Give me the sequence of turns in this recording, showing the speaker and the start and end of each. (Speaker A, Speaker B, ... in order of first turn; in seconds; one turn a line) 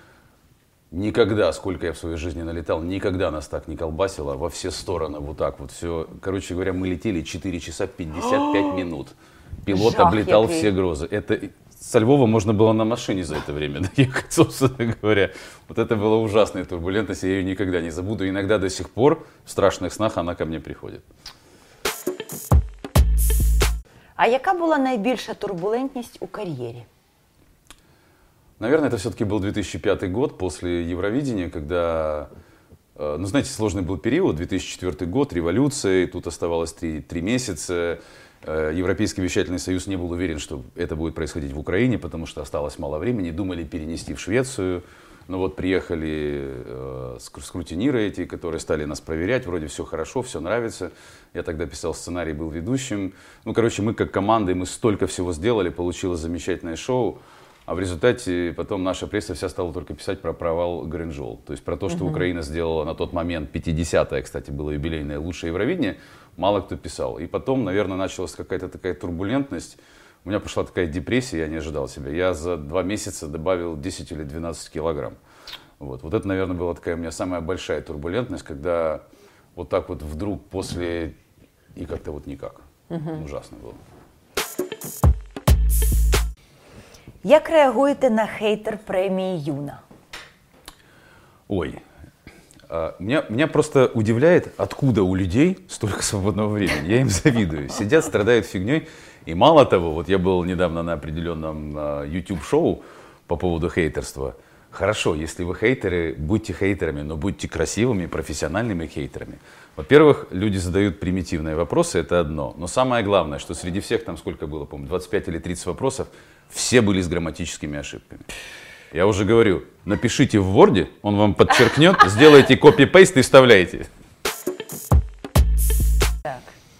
Speaker A: 0.9-21.1
Speaker B: 9.7-10.7
Speaker B: 24.2-26.9
Speaker A: 28.6-32.3
Speaker A: 33.0-75.2
Speaker A: 75.8-79.0
Speaker A: 79.5-81.2
Speaker A: 81.7-83.8
Speaker B: 87.2-89.8
Speaker A: 91.5-91.8
Speaker A: 92.7-118.3
Speaker A: 118.9-123.9
Speaker B: 126.2-126.5